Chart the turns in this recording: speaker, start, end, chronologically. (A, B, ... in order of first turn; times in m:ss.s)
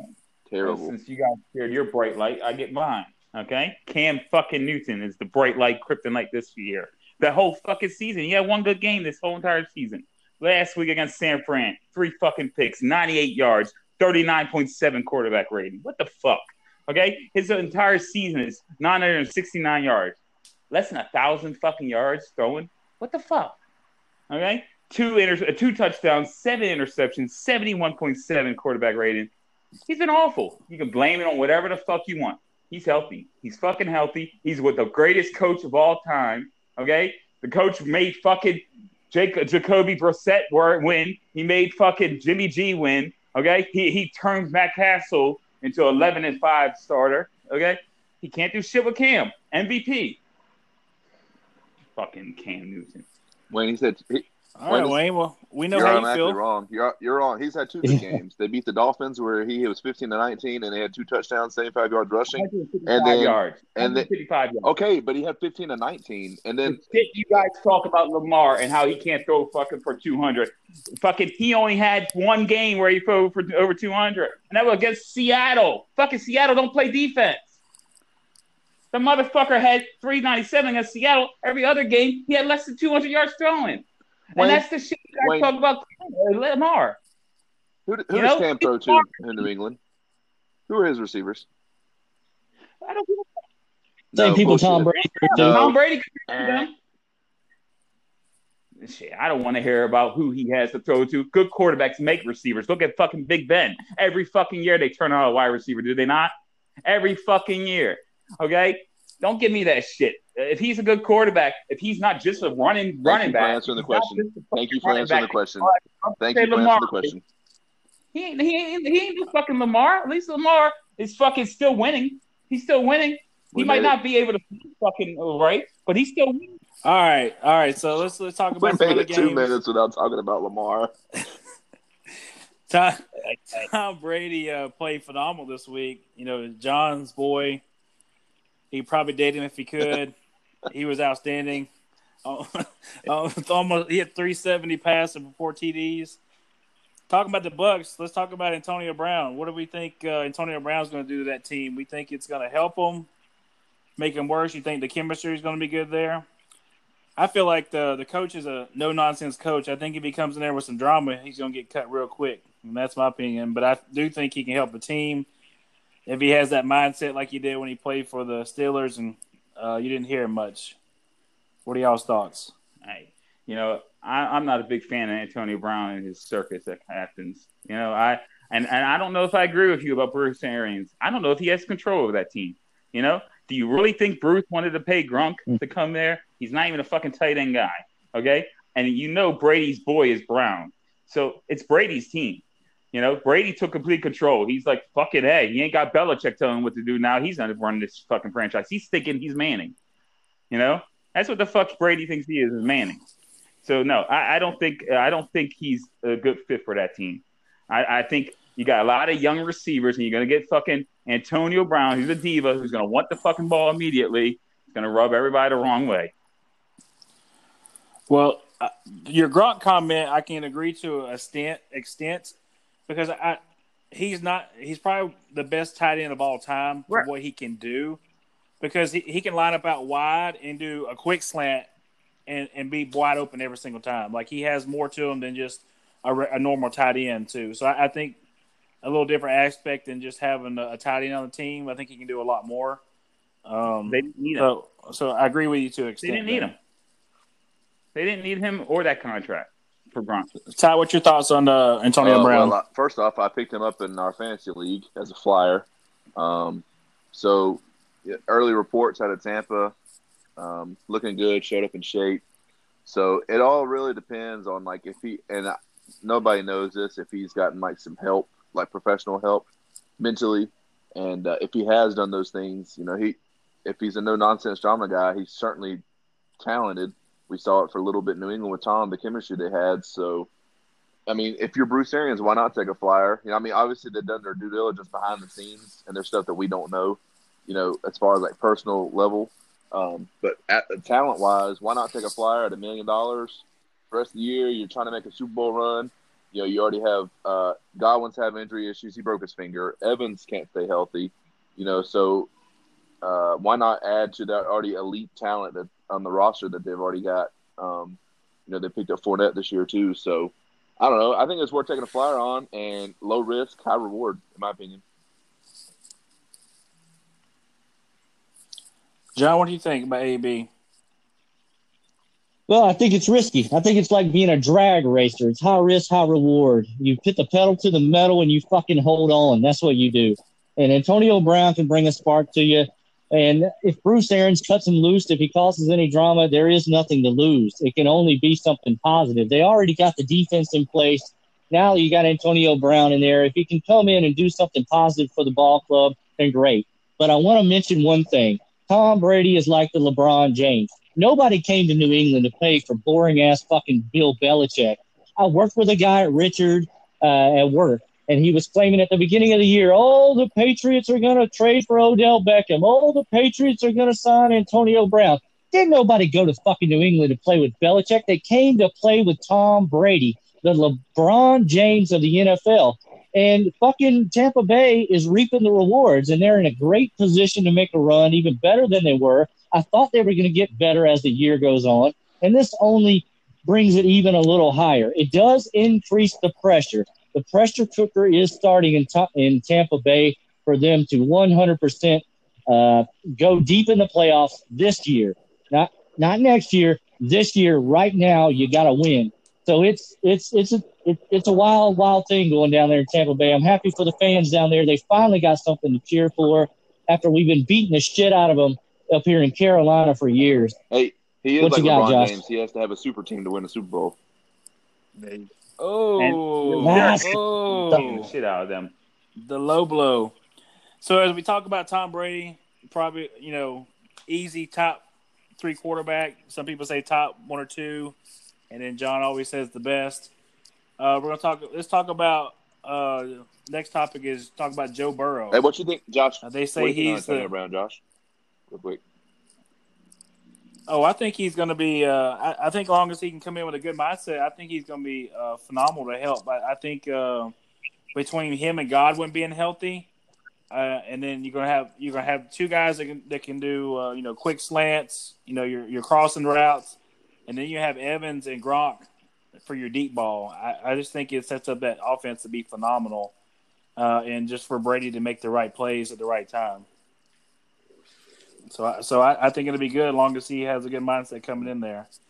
0:00.5-0:00.9 A
0:00.6-0:20.2 B
0:20.7-0:23.6 B
0:24.3-0:29.3 B
0:29.9-0:50.2 B
0:52.0-0:53.0 B
0:53.5-0:55.0 A
0:54.6-0:56.4 C
0:55.7-1:04.1 A
0:57.8-0:58.2 D
1:02.3-1:04.7 B
1:04.6-1:07.0 A
1:06.6-1:17.5 B
1:18.9-1:27.0 B
1:24.4-1:24.6 A
1:25.2-1:25.5 A
1:27.9-1:29.8 A
1:28.1-1:29.1 B
1:30.7-1:31.4 A
1:32.8-1:33.2 B
1:34.1-1:35.8 A
1:34.2-1:35.6 D
1:35.1-1:36.7 B
1:36.3-1:36.7 A
1:38.8-1:46.3 B
1:46.8-1:57.1 B
1:53.0-1:57.2 A
1:58.1-2:06.6 B
2:03.5-2:03.9 A
2:06.8-2:09.5 C
2:08.6-2:10.9 A
2:12.7-2:17.6 C
2:13.2-2:13.7 B
2:18.7-2:20.1 C
2:20.7-2:21.7 C
2:22.2-2:26.2 C
2:27.1-2:33.1 C
2:34.0-2:36.2 C
2:37.2-2:45.3 C
2:46.0-2:50.8 C
2:51.6-2:52.5 C
2:52.8-3:19.7 B
3:20.5-3:23.0 B
3:23.6-3:36.1 B
3:38.1-3:42.4 C
3:42.9-3:43.4 C
3:43.9-3:48.0 C
3:48.6-3:51.7 C
3:52.3-3:58.2 C
3:58.8-4:02.8 C
4:03.4-4:06.5 C
4:03.9-4:04.5 B
4:06.0-4:06.5 B
4:07.9-4:10.3 B
4:10.5-4:12.6 C
4:12.0-4:19.7 A
4:20.4-4:22.2 A
4:22.8-4:29.5 A
4:30.0-4:35.8 A
4:36.4-4:40.3 A
4:41.1-5:02.3 A
5:03.0-5:14.8 A
5:19.2-5:20.5 C
5:22.5-6:50.5 D
6:50.7-6:54.0 A
6:51.4-6:52.2 D
6:55.0-6:55.3 B
6:55.6-6:58.1 C
6:56.0-6:58.7 B
6:56.6-6:57.2 D
6:59.2-7:00.2 C
7:00.8-7:04.8 C
7:05.4-7:08.0 C
7:08.5-7:10.1 C
7:10.8-7:15.4 C
7:15.3-7:17.8 A
7:16.2-7:17.3 C
7:18.5-7:18.8 A
7:20.7-7:27.3 C
7:27.9-7:29.9 C
7:30.5-7:43.1 C
7:43.8-7:46.6 C
7:48.5-7:51.9 C